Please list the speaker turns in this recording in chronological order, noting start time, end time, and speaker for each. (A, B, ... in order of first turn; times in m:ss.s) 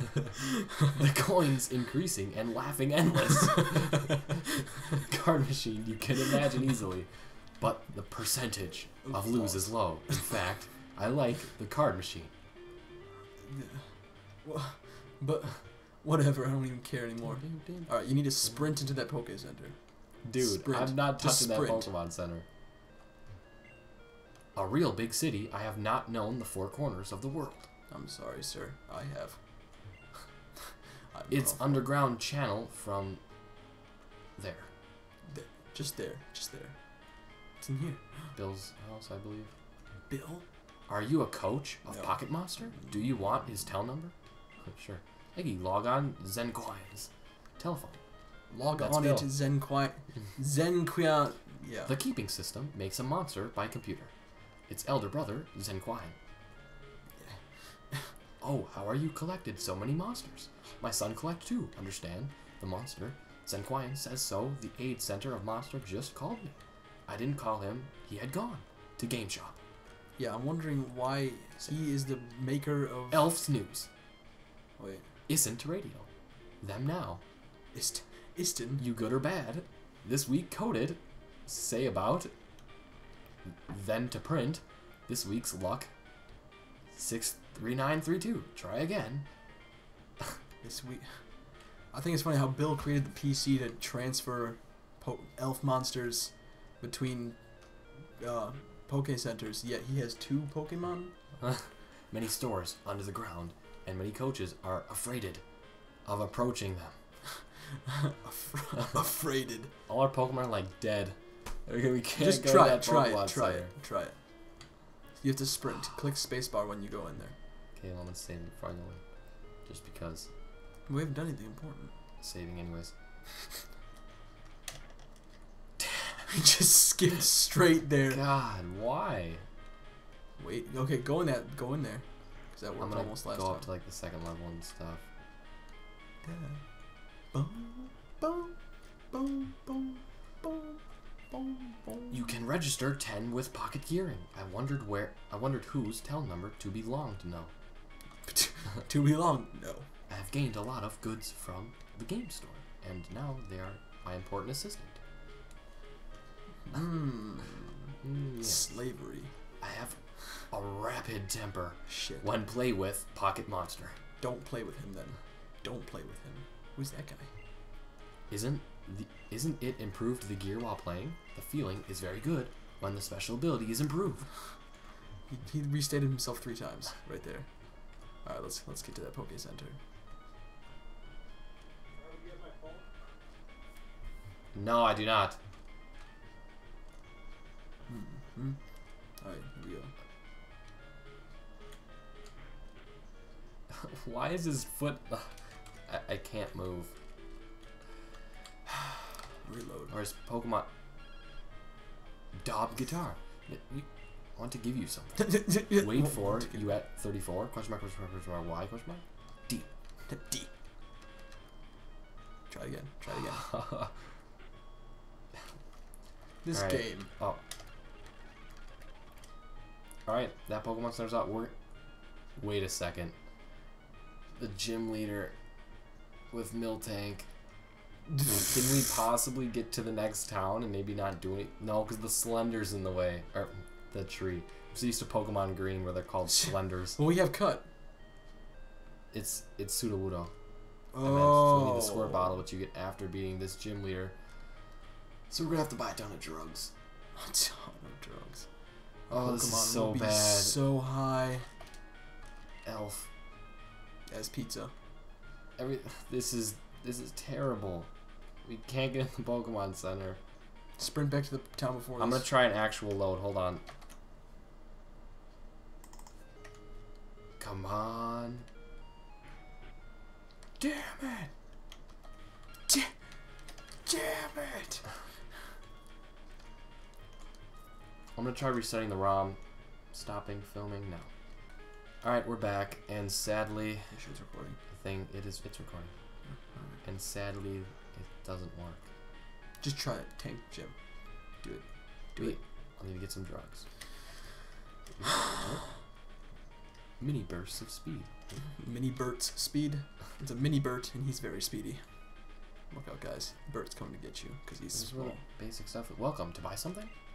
0:00.9-0:12.3 A
0:09.1-0:10.2 B
0:13.4-0:21.9 B
0:17.2-0:18.6 A
0:20.2-0:22.4 A
0:24.6-0:27.7 A
0:27.9-0:29.4 B
0:31.1-0:31.9 B
0:31.3-0:33.2 A
0:34.4-0:34.7 A
0:35.3-0:36.8 B
0:37.6-0:38.4 B
0:38.4-0:39.5 A
0:40.1-0:40.5 B
0:40.9-0:48.0 A
0:41.9-0:43.4 B
0:48.5-0:52.0 B
0:48.8-0:49.3 A
0:51.8-0:54.1 A
0:54.7-0:56.2 A
0:57.2-0:58.1 B
0:58.4-1:06.6 A
1:07.1-1:09.6 A
1:10.2-1:13.3 B
1:13.1-1:13.9 A
1:14.8-1:15.1 B
1:15.3-1:16.1 A
1:16.6-1:17.2 A
1:17.7-1:18.8 B
1:18.8-1:22.3 A
1:23.5-1:25.9 A
1:26.9-1:29.3 A
1:30.6-1:41.1 B
1:41.4-1:45.4 A
1:46.0-1:47.0 A
1:47.9-1:49.7 B
1:49.9-1:53.7 A
1:52.2-1:54.2 B
1:55.2-1:57.4 B
1:57.7-2:00.3 A
2:00.9-2:02.0 B
2:02.2-2:02.9 A
2:05.8-2:06.2 A
2:06.3-2:08.2 B
2:08.1-2:09.4 A
2:10.4-2:13.7 B
2:12.8-2:15.0 A
2:16.2-2:16.6 B
2:17.3-2:18.6 B
2:19.1-2:22.2 B
2:22.1-2:27.5 A
2:28.3-2:29.9 B
2:30.1-2:35.0 A
2:36.7-2:39.3 B
2:38.0-2:38.8 A
2:39.6-2:44.0 A
2:41.9-2:42.3 B
2:44.2-2:47.3 B
2:48.3-2:54.3 A
2:55.3-2:59.8 B
3:02.1-3:02.8 B
3:04.5-3:05.4 A
3:07.9-3:08.6 B
3:09.2-3:09.9 B
3:13.7-3:16.9 A
3:19.4-3:19.9 B
3:19.9-3:20.7 A
3:22.4-3:29.7 A
3:25.2-3:26.7 B
3:30.1-3:30.5 B
3:32.5-3:33.5 B
3:33.1-3:33.9 A
3:36.4-3:37.1 B
3:36.5-3:37.4 A
3:40.1-3:41.6 A
3:42.3-3:43.2 A
3:44.4-3:45.4 A
3:46.3-3:47.3 A
3:48.2-3:57.0 A
3:56.3-3:57.7 B
3:59.1-4:00.3 A
4:00.9-4:02.4 B
4:01.0-4:04.2 A
4:05.3-4:06.7 A
4:07.2-4:08.5 B
4:09.1-4:11.5 B
4:09.1-4:10.6 A
4:12.6-4:13.1 A
4:14.1-4:14.7 B
4:15.6-4:17.9 A
4:18.4-4:20.2 A
4:20.8-4:22.3 B
4:22.0-4:23.6 A
4:27.4-4:28.5 A
4:30.6-4:31.3 B
4:32.7-4:32.9 B
4:33.9-4:34.9 B
4:38.2-4:39.4 A
4:39.9-4:41.1 A
4:42.0-4:44.0 A
4:43.9-4:44.6 B
4:44.7-4:45.9 A
4:46.3-4:46.8 B
4:46.8-4:48.9 A
4:49.6-4:50.8 B
4:51.4-4:52.4 B
4:52.2-4:53.7 A
4:54.9-4:55.8 A
4:57.0-4:58.3 A
4:58.6-5:05.2 B
5:04.7-5:06.9 A